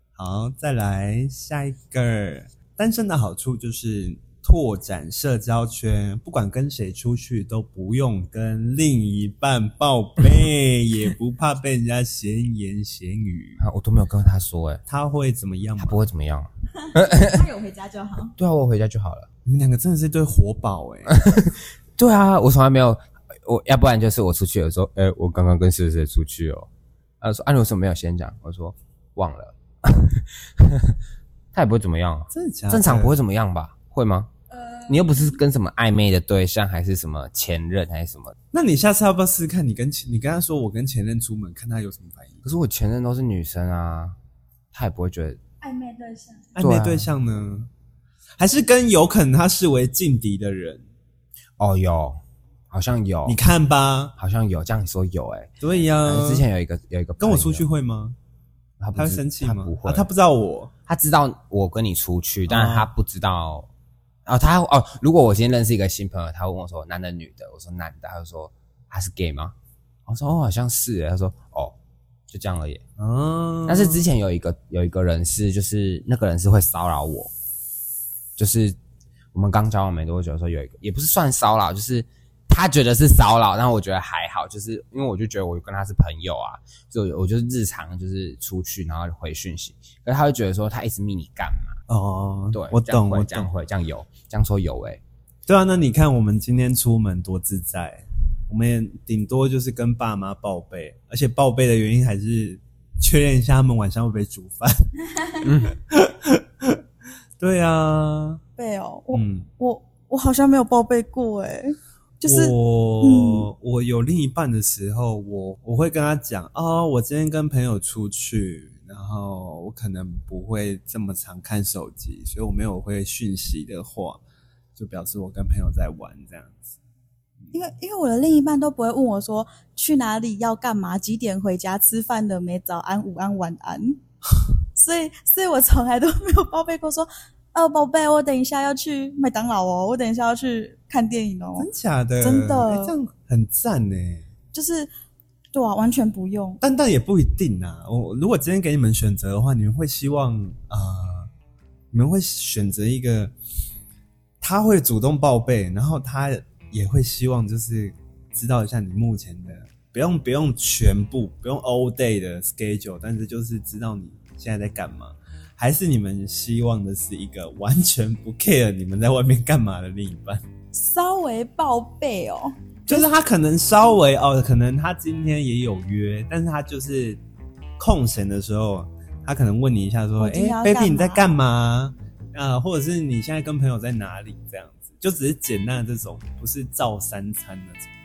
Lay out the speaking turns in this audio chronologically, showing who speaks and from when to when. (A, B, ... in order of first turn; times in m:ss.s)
0:00.2-0:13.6 A
0:13.6-0:14.8 B
0:14.9-0:16.0 A
0:15.8-0:17.4 B
0:16.8-0:18.3 C
0:18.4-0:19.3 B
0:19.4-0:21.4 A
0:21.1-0:26.7 B
0:27.2-0:31.0 B
0:31.5-0:34.3 B
0:32.3-0:33.2 A
0:34.5-0:35.4 C
0:34.9-0:38.4 B
0:38.5-0:42.4 A
0:42.4-0:44.2 B
0:44.7-0:45.4 B
0:45.6-0:46.5 C
0:46.6-0:47.7 A
0:46.6-0:47.1 B
0:48.4-0:50.8 A
0:51.6-0:52.2 B
0:52.7-0:53.4 B
0:53.3-0:54.1 A
0:54.2-0:55.5 B
0:55.6-0:56.5 A
0:56.0-0:57.7 B
0:57.2-0:58.2 A
0:58.8-1:00.1 B
0:59.0-1:00.7 A
1:00.9-1:03.7 B
1:02.5-1:02.9 A
1:04.3-1:09.6 B
1:10.1-1:11.8 B
1:12.3-1:12.8 B
1:13.0-1:14.1 A
1:13.7-1:17.3 B
1:18.4-1:18.8 B
1:19.3-1:31.8 B
1:31.9-1:33.5 A
1:32.5-1:35.0 B
1:35.5-1:44.9 A
1:45.4-1:45.8 B
1:45.6-1:46.8 A
1:47.4-1:48.4 A
1:48.6-1:53.5 C
1:49.1-1:49.5 A
1:52.2-2:04.2 A
2:04.8-2:06.8 A
2:07.5-2:14.0 C
2:14.8-2:21.7 C
2:21.6-2:24.3 A
2:22.2-2:22.9 C
2:24.5-2:24.9 C
2:25.5-2:26.6 C
2:26.6-2:31.3 A
2:31.9-2:33.3 A
2:34.4-2:50.4 A
2:50.7-2:53.1 C
2:52.9-2:57.2 A
2:57.8-3:07.9 A
3:00.2-3:01.3 C